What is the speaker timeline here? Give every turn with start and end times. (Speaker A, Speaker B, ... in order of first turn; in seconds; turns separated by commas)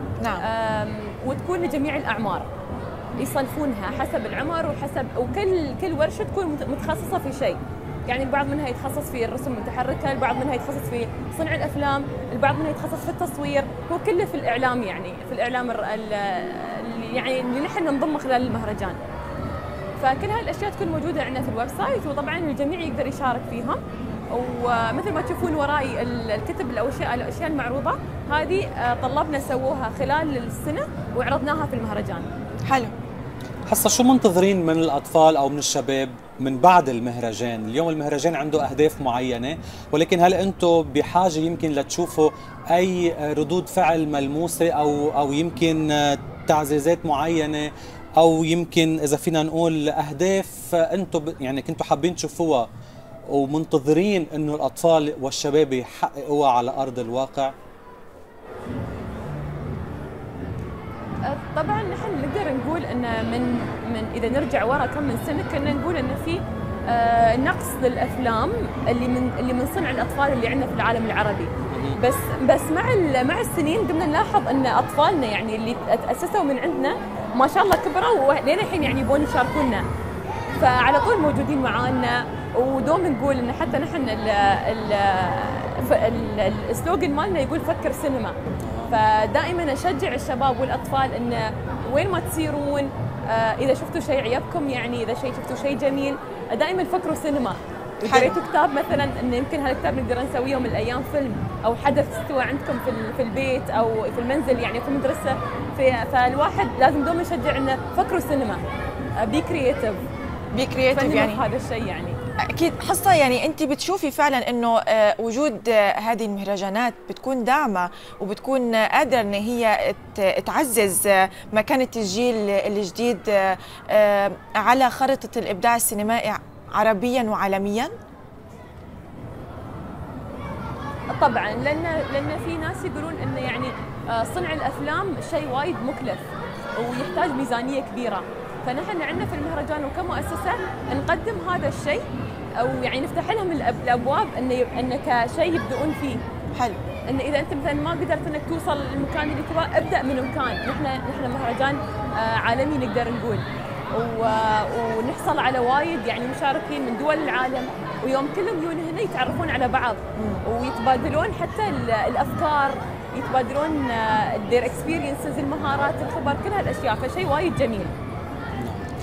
Speaker A: 0.2-0.5, Speaker B: 0.4-2.5, Speaker B: 3.2-19.0, Speaker B: 20.0-23.8, Speaker B: 24.3-32.3, Speaker A: 32.6-32.9, Speaker C: 33.7-52.7, Speaker C: 53.3-57.5, Speaker B: 61.2-79.9, Speaker C: 71.7-72.0, Speaker B: 80.5-88.4, Speaker C: 88.6-88.9, Speaker B: 88.9-108.6, Speaker A: 98.0-98.4, Speaker B: 109.2-110.0, Speaker A: 110.5-111.4, Speaker B: 110.9-112.2, Speaker A: 112.5-127.9, Speaker B: 131.1-142.0, Speaker B: 142.6-146.2, Speaker A: 146.5-146.8, Speaker B: 147.1-167.9, Speaker A: 160.2-160.4, Speaker C: 168.6-168.9